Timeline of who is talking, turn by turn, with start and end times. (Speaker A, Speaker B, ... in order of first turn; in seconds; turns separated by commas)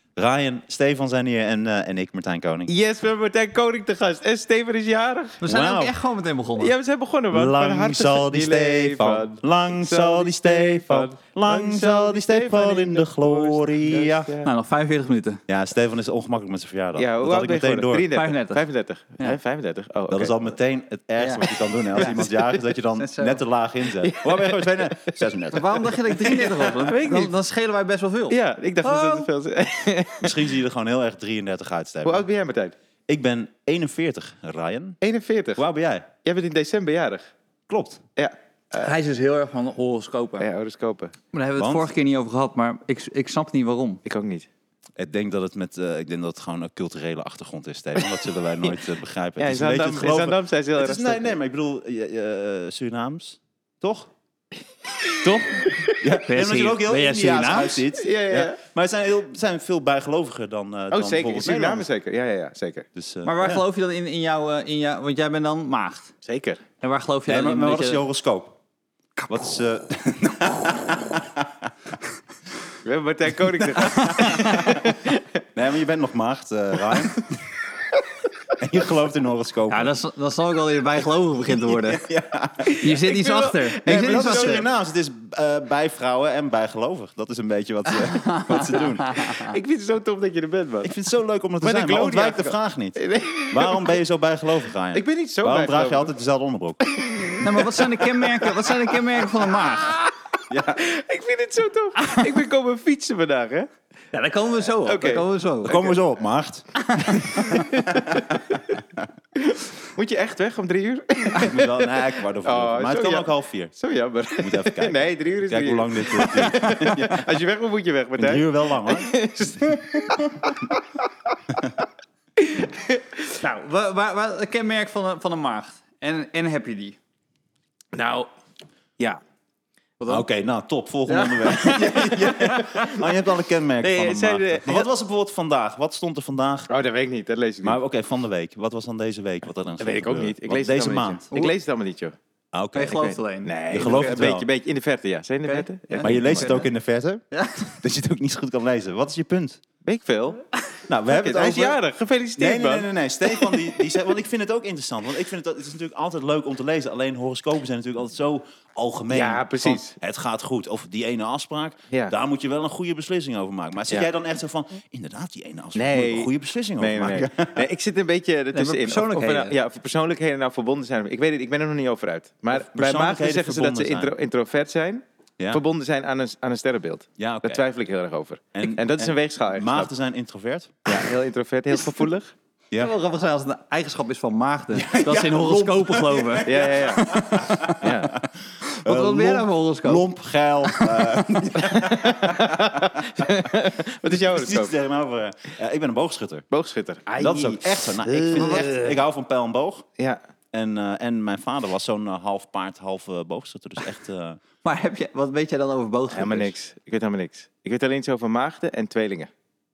Speaker A: 0.2-2.7, Speaker B: 2.7-5.4, Speaker C: 5.4-6.7, Speaker A: 5.5-5.9, Speaker B: 6.6-14.5, Speaker A: 7.3-14.3, Speaker C: 14.4-15.4, Speaker A: 15.5-18.1, Speaker B: 17.0-20.3, Speaker C: 18.1-18.6, Speaker A: 20.1-25.9, Speaker C: 21.2-21.4, Speaker B: 22.0-22.6, Speaker C: 23.0-23.4, Speaker B: 24.0-25.3, Speaker C: 25.5-29.3, Speaker B: 26.2-27.3, Speaker B: 28.3-30.5, Speaker A: 30.2-32.2, Speaker B: 32.0-32.8, Speaker A: 33.1-35.0, Speaker B: 35.0-35.6, Speaker A: 35.6-36.1, Speaker B: 36.2-37.3, Speaker A: 37.7-38.0, Speaker B: 38.2-38.9, Speaker C: 38.7-40.5, Speaker B: 40.4-41.1, Speaker C: 41.3-44.0, Speaker A: 41.6-41.9, Speaker B: 44.0-44.5, Speaker A: 45.0-54.1, Speaker B: 49.4-51.4, Speaker B: 55.1-55.9, Speaker A: 55.2-61.9, Speaker C: 56.2-57.9, Speaker B: 58.0-58.6, Speaker B: 60.9-62.9, Speaker A: 63.0-63.6, Speaker C: 63.2-66.1, Speaker B: 66.2-66.6, Speaker C: 66.8-68.0, Speaker A: 67.3-68.6, Speaker A: 69.3-71.7, Speaker B: 72.8-75.2, Speaker A: 73.6-74.7, Speaker C: 74.0-74.7, Speaker A: 75.5-77.3, Speaker A: 78.6-79.9, Speaker C: 79.7-82.1, Speaker A: 81.6-82.9, Speaker B: 82.7-84.7, Speaker C: 82.8-84.6, Speaker A: 83.9-89.4, Speaker C: 88.1-89.5, Speaker B: 89.4-90.9, Speaker A: 90.8-96.8, Speaker B: 91.6-94.0, Speaker B: 94.9-96.1, Speaker B: 96.8-103.7, Speaker C: 97.4-100.0, Speaker A: 100.5-100.8, Speaker C: 104.1-105.9, Speaker B: 104.8-105.3, Speaker A: 105.6-109.1, Speaker C: 106.8-107.7, Speaker B: 107.5-108.4, Speaker B: 109.4-120.8, Speaker A: 111.3-113.7, Speaker A: 114.4-117.2, Speaker A: 118.2-119.8, Speaker B: 122.4-123.3, Speaker C: 123.4-127.0, Speaker B: 127.9-128.3, Speaker C: 130.0-130.2, Speaker A: 130.1-136.7, Speaker C: 131.1-132.6, Speaker B: 131.1-133.1, Speaker B: 133.8-134.9, Speaker B: 136.7-137.8, Speaker A: 137.6-141.2, Speaker B: 139.8-142.2, Speaker A: 142.5-143.0, Speaker C: 142.7-144.2, Speaker B: 142.9-146.6, Speaker A: 143.7-144.5, Speaker C: 145.4-146.7, Speaker A: 146.0-149.6, Speaker C: 147.3-147.7, Speaker B: 149.9-150.4, Speaker A: 150.9-151.8, Speaker B: 151.1-152.9, Speaker A: 152.4-167.7, Speaker B: 159.1-159.9, Speaker B: 165.8-179.9, Speaker C: 168.5-169.6, Speaker A: 172.5-174.1, Speaker A: 177.2-177.6, Speaker A: 178.6-180.8, Speaker B: 180.9-182.3, Speaker C: 182.8-187.8, Speaker A: 184.7-193.3, Speaker B: 186.4-187.1, Speaker B: 187.8-188.1, Speaker C: 188.7-190.0, Speaker C: 190.7-191.3, Speaker B: 191.6-194.7, Speaker A: 194.1-196.4, Speaker B: 196.5-198.7, Speaker A: 197.2-199.9, Speaker C: 198.3-199.0, Speaker A: 200.5-204.4, Speaker C: 204.6-206.5, Speaker B: 206.1-209.3